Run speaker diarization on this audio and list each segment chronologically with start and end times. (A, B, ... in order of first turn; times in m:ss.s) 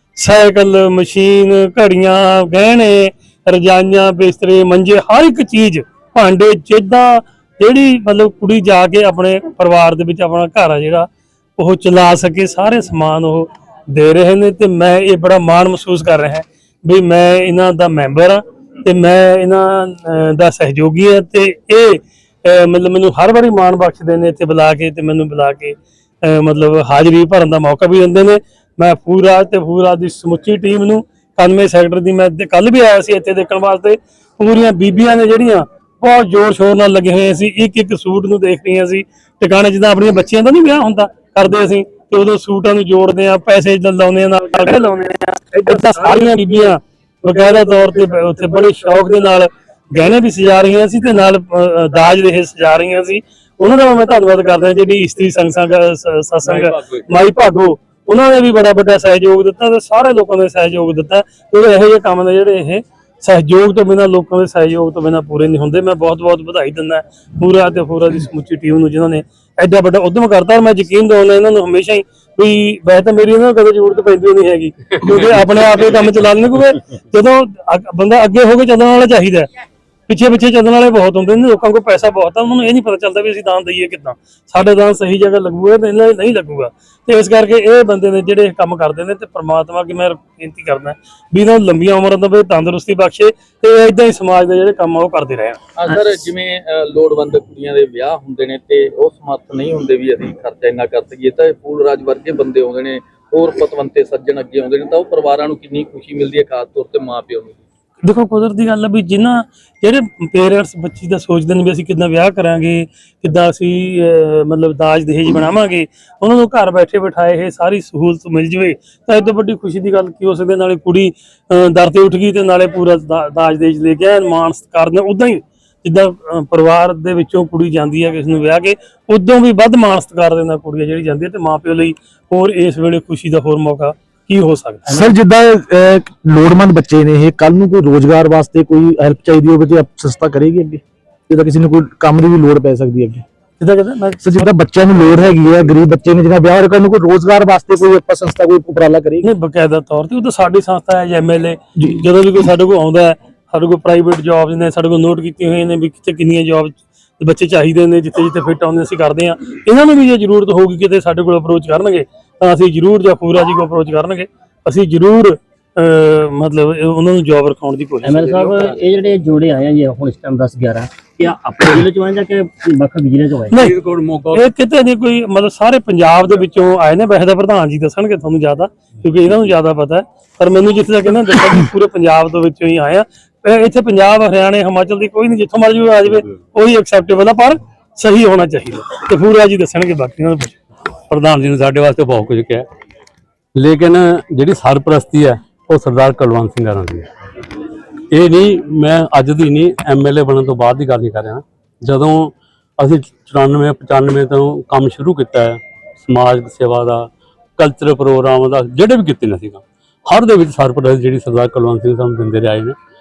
0:00.2-1:19.5 A
0:56.5-0:57.0 B
1:20.1-1:35.6 A
1:35.8-1:47.6 C
1:48.0-2:14.9 A
2:14.9-2:20.6 D
2:21.3-2:22.7 D
2:23.6-2:24.4 A
2:24.4-2:28.4 D
2:29.2-2:48.7 A
2:48.0-2:53.6 E
2:53.5-2:54.4 B
2:54.3-3:10.6 A
3:11.1-3:12.6 B
3:13.6-3:17.1 B
3:18.1-3:32.8 B